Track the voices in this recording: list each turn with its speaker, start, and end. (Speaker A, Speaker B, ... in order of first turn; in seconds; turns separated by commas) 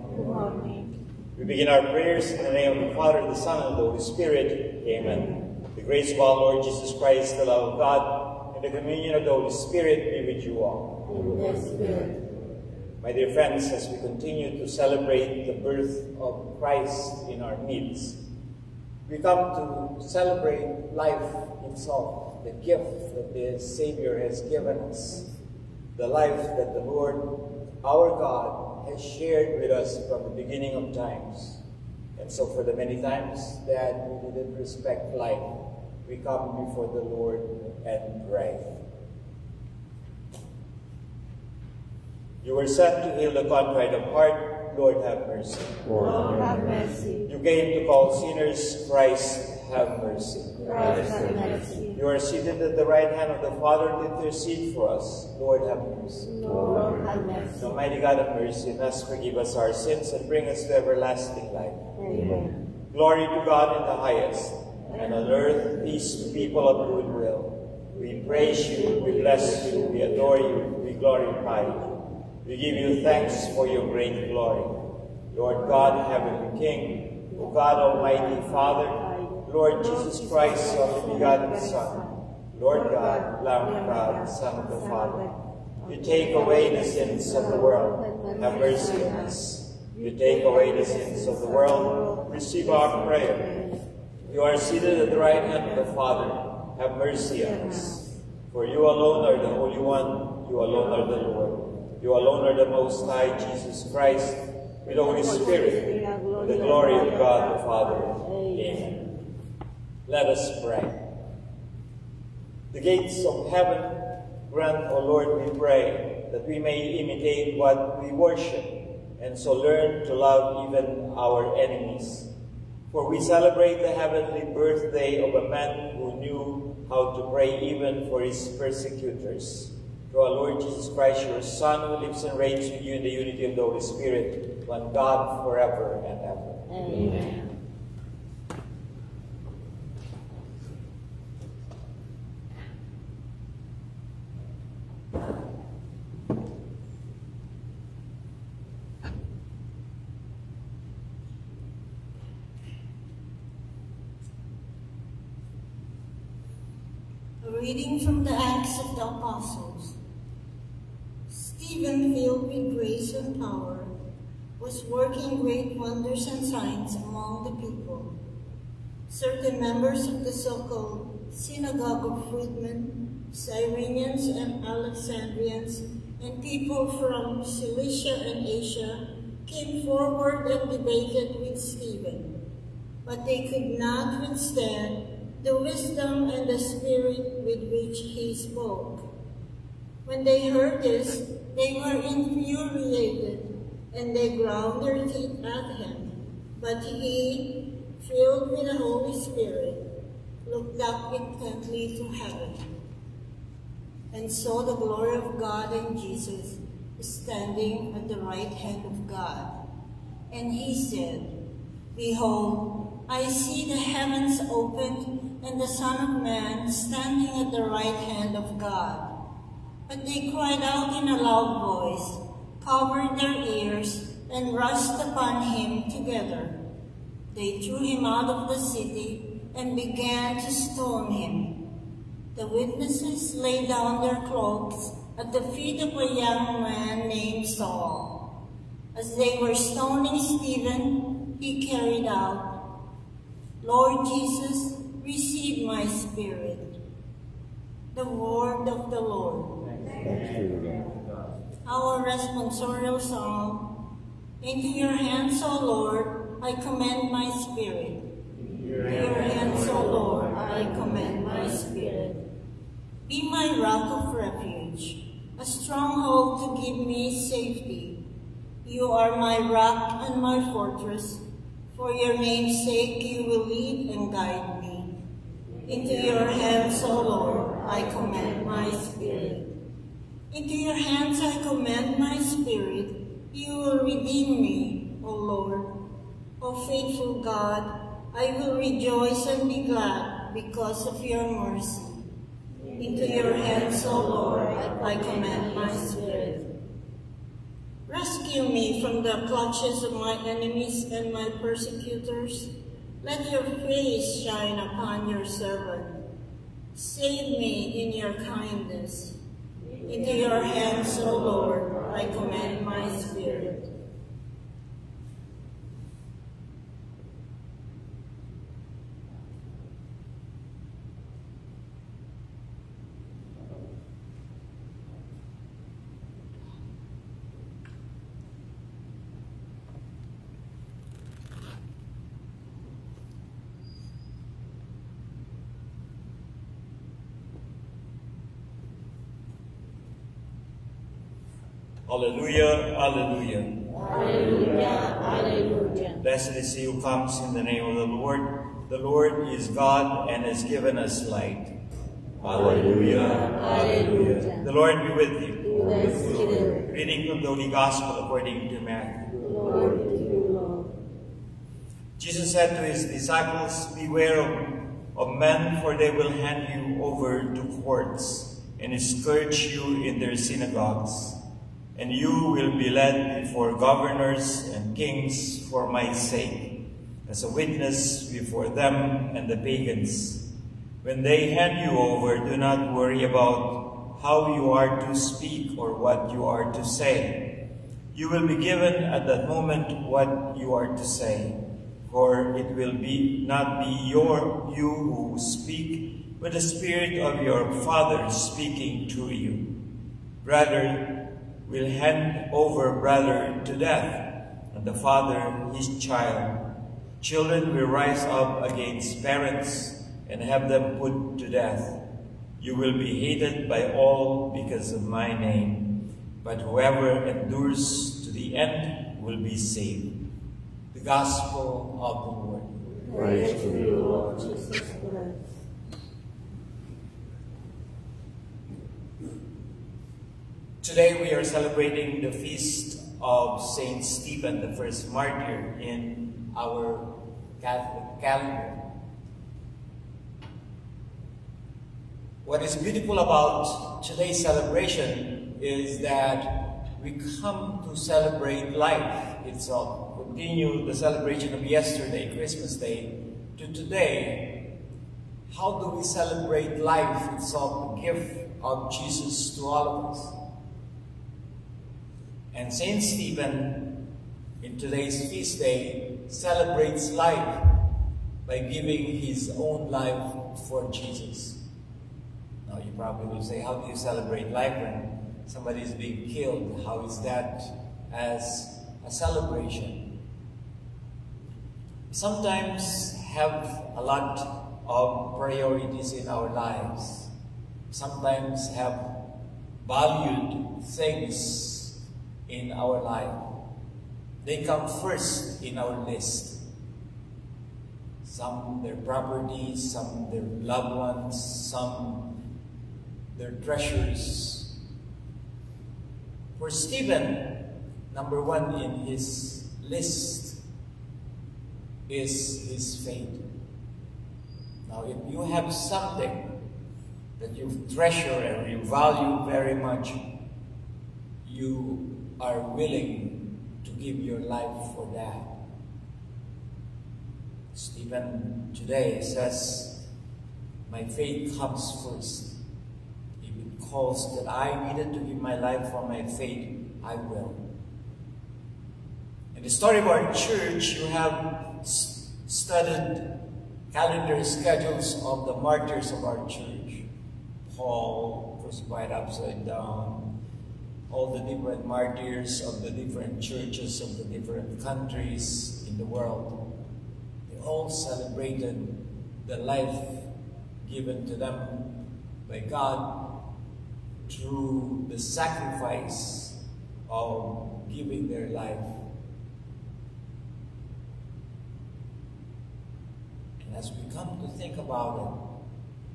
Speaker A: 0.3-0.8, Speaker B: 1.4-11.0, Speaker A: 11.1-12.1, Speaker B: 13.0-18.2, Speaker B: 19.1-25.3, Speaker B: 25.9-31.6, Speaker B: 32.1-35.5, Speaker B: 36.0-38.6, Speaker B: 42.4-45.9, Speaker C: 45.9-46.6, Speaker B: 47.2-56.5, Speaker A: 51.2-51.9, Speaker C: 56.5-57.1, Speaker A: 56.9-57.5, Speaker B: 57.5-61.8, Speaker A: 62.1-62.4, Speaker C: 62.1-62.5, Speaker B: 62.9-71.9, Speaker B: 72.4-74.8, Speaker B: 75.3-85.3, Speaker B: 85.8-93.6, Speaker B: 94.3-109.0, Speaker B: 110.1-111.0, Speaker B: 112.7-122.3, Speaker B: 122.9-136.6, Speaker A: 136.8-137.3, Speaker A: 157.4-160.0, Speaker A: 161.3-163.9, Speaker A: 164.6-168.1, Speaker A: 169.1-182.3, Speaker A: 183.1-189.0, Speaker A: 190.1-199.8, Speaker A: 200.4-202.7, Speaker A: 204.1-209.5, Speaker A: 210.3-211.3, Speaker A: 211.9-219.1, Speaker A: 219.9-226.6, Speaker A: 227.3-231.6, Speaker A: 232.3-238.1, Speaker A: 238.9-242.6, Speaker A: 243.6-246.7, Speaker A: 247.9-249.6, Speaker C: 250.0-250.8, Speaker A: 251.6-253.7, Speaker A: 254.4-258.0, Speaker A: 258.7-262.2, Speaker A: 263.1-268.0, Speaker A: 268.6-274.9, Speaker A: 275.7-279.5, Speaker A: 280.3-285.7, Speaker A: 286.4-292.0, Speaker A: 292.7-296.5, Speaker A: 297.9-306.0, Speaker A: 306.7-309.2, Speaker A: 309.8-313.6, Speaker B: 341.9-343.6, Speaker A: 343.9-345.9, Speaker B: 345.9-351.5, Speaker B: 352.2-359.0, Speaker C: 352.4-353.1, Speaker C: 355.5-356.4, Speaker A: 359.3-360.6, Speaker B: 362.0-371.2, Speaker B: 371.8-380.3, Speaker B: 380.8-387.3, Speaker B: 387.9-399.5, Speaker B: 400.2-406.4, Speaker B: 407.0-411.8, Speaker B: 412.4-419.9, Speaker B: 420.7-422.5, Speaker A: 422.9-425.2, Speaker C: 422.9-423.7, Speaker B: 430.6-438.6, Speaker B: 442.2-454.5, Speaker B: 455.3-460.2, Speaker B: 462.3-463.8, Speaker B: 464.4-467.6, Speaker B: 468.2-471.4, Speaker B: 472.4-479.9, Speaker B: 481.9-487.1, Speaker B: 487.7-489.0, Speaker B: 489.6-493.2, Speaker B: 494.2-496.5, Speaker B: 498.0-502.1, Speaker B: 503.1-504.6, Speaker B: 506.4-510.4, Speaker B: 511.9-513.2, Speaker B: 514.6-516.3, Speaker B: 517.2-520.0, Speaker B: 521.2-525.4, Speaker B: 527.5-529.9, Speaker B: 530.6-532.4, Speaker B: 533.2-537.4, Speaker B: 539.3-543.2, Speaker B: 543.7-546.9, Speaker B: 547.5-550.1, Speaker B: 550.9-556.4, Speaker B: 557.3-560.1, Speaker B: 560.6-561.7, Speaker B: 562.2-563.2, Speaker B: 564.1-568.8, Speaker B: 573.4-575.2